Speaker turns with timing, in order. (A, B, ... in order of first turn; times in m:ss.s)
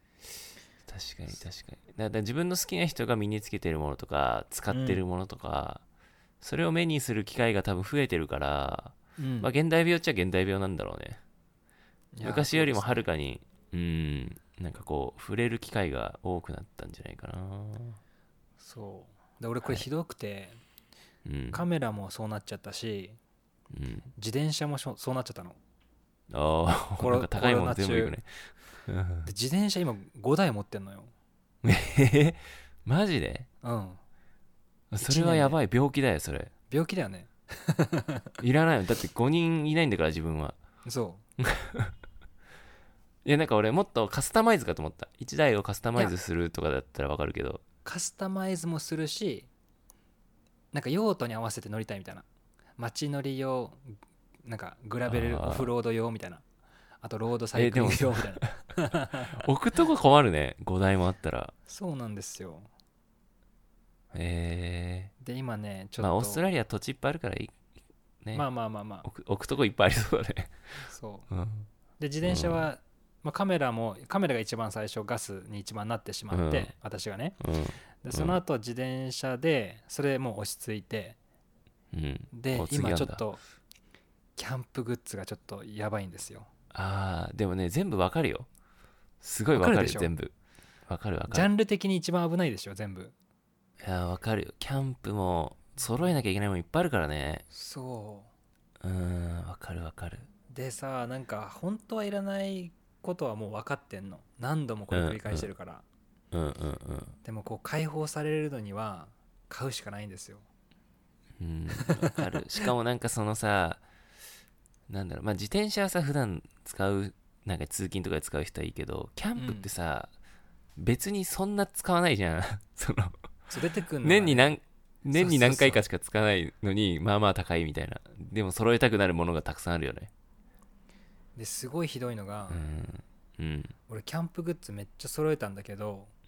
0:00.8-0:05.8 A
0:04.7-0:05.0 B
0:06.4-0:11.2 A
0:09.2-0:09.5 B
0:12.2-0:13.1 B
0:12.2-0:18.0 A
0:18.6-0:20.6 B
0:21.2-0:21.6 A
0:21.5-0:23.2 B
0:23.7-0:24.1 A
0:24.2-0:25.6 B
0:26.3-0:29.3 A
0:27.0-0:28.2 B
0:29.2-0:31.1 B
0:31.6-0:33.5 A
0:33.6-0:34.0 B
0:34.9-0:36.5 A
0:35.0-0:35.6 B
0:36.7-0:38.3 B
0:38.4-0:40.6 A
0:40.9-0:41.2 B
0:41.4-0:41.9 A
0:43.2-0:47.6 A
0:47.8-0:49.5 B
0:50.7-0:52.3 B
0:52.8-0:56.4 B
0:55.1-0:55.7 A
0:57.0-0:59.4 B
0:57.5-0:58.5 A
0:59.3-1:01.5 A
1:01.7-1:02.7 B
1:04.1-1:05.1 A
1:05.2-1:06.4 B
1:06.0-1:07.5 A
1:08.2-1:08.5 A
1:08.3-1:09.1 B
1:09.0-1:11.7 A
1:10.9-1:11.3 B
1:12.0-1:17.4 B
1:12.2-1:12.7 A
1:16.3-1:16.7 A
1:17.4-1:18.4 A
1:18.0-1:21.2 B
1:21.9-1:23.2 A
1:22.3-1:23.4 B
1:24.4-1:26.5 B
1:26.7-1:28.5 A
1:29.2-1:30.3 A
1:29.5-1:30.1 B
1:30.9-1:31.5 A
1:31.3-1:33.2 B
1:33.8-1:37.4 A
1:37.5-1:38.3 B
1:38.8-1:40.3 A
1:40.5-1:45.8 B
1:44.9-1:45.5 A
1:46.3-1:47.2 A
1:47.2-1:50.5 B
1:51.4-1:53.8 A
1:51.8-1:52.1 B
1:54.9-2:00.1 A
1:59.4-1:59.7 B
2:00.8-2:03.2 A
2:03.5-2:04.5 B
2:04.0-2:10.1 A
2:05.1-2:05.8 B
2:11.4-2:12.6 B
2:12.5-2:13.8 A
2:13.9-2:16.1 B